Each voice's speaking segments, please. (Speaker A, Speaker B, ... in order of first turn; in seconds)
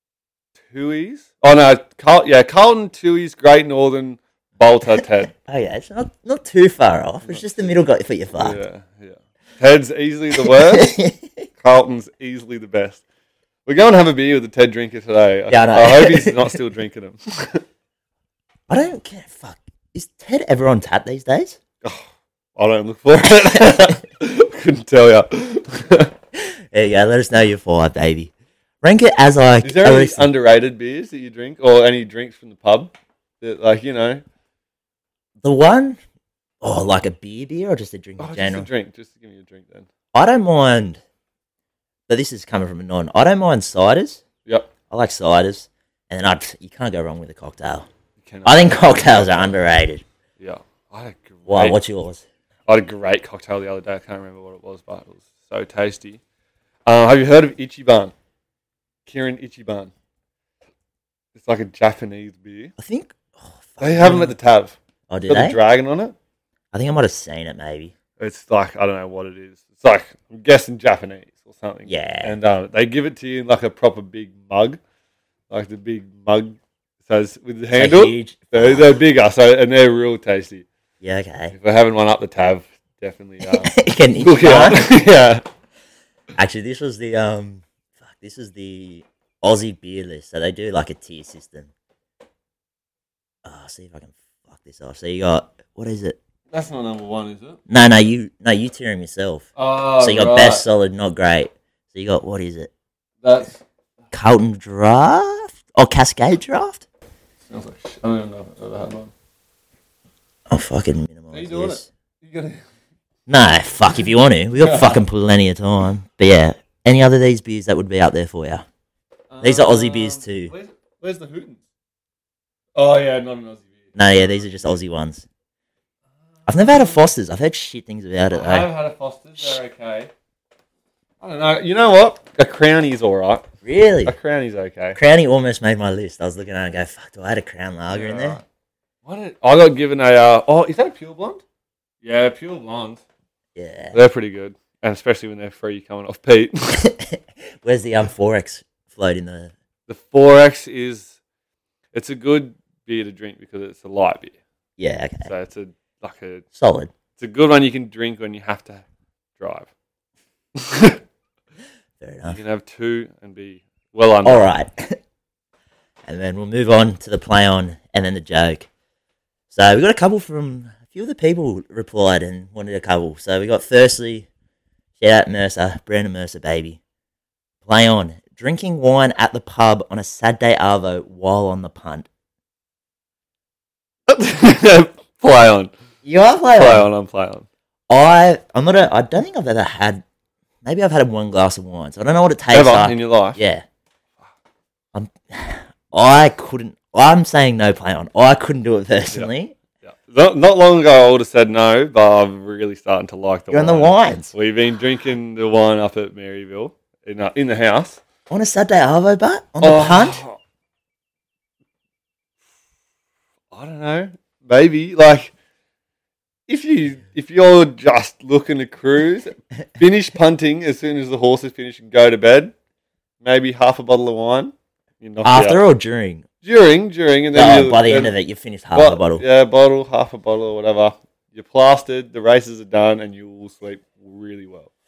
Speaker A: 0.7-5.3, 7.2-7.8, 8.4-10.9, 11.6-13.0, 13.7-17.6, 21.8-26.1, 29.6-34.2, 38.2-39.9, 48.2-49.5, 50.4-51.8, 52.7-56.2, 56.9-58.1, 59.1-59.9, 61.3-62.7, 63.8-64.8, 65.3-66.2, 68.2-74.8, 75.5-80.7, 81.5-85.4, 96.5-97.6, 99.6-100.7, 103.2-103.6, 107.5-109.1, 111.3-112.6, 114.6-115.0, 119.3-121.6, 122.8-124.8, 126.5-127.0, 128.3-130.1, 131.2-133.5, 134.1-135.0, 137.9-138.4, 139.0-141.4, 142.0-143.0, 143.9-146.8, 149.9-151.2, 151.9-154.4, 155.2-156.4, 157.2-158.8, 159.4-159.7, 160.6-161.0, 162.3-164.5, 184.1-185.7, 186.5-187.5, 192.5-193.4, 199.8-208.0, 209.6-210.4, 213.5-215.3, 216.5-222.5, 223.2-225.6, 226.4-228.1, 228.8-234.7
Speaker B: 5.5-8.6, 10.4-11.5, 15.5-16.6, 18.7-21.6, 26.4-30.3, 35.4-36.0, 36.6-38.7, 40.1-41.0, 42.1-44.2, 44.9-47.9, 48.5-50.0, 51.5-52.2, 62.8-64.3, 65.1-65.6, 66.7-67.9, 71.9-72.4, 77.7-79.0, 81.0-81.5, 83.4-84.9, 86.4-91.7, 93.5-96.2, 97.7-99.5, 100.0-102.7, 104.1-106.8, 110.5-111.9, 113.3-118.6, 119.4-120.5, 124.0-125.3, 126.5-128.7, 133.6-134.2, 134.9-138.4, 143.6-144.0, 146.8-149.5, 154.8-155.3, 156.5-156.9, 162.0-162.4, 164.2-165.0, 166.1-168.7, 169.5-174.3, 175.0-176.8, 177.7-182.1, 186.0-186.9, 187.9-190.0, 190.6-193.6, 194.9-199.6, 203.5-204.3, 208.3-210.2, 225.2-226.3, 227.3-229.2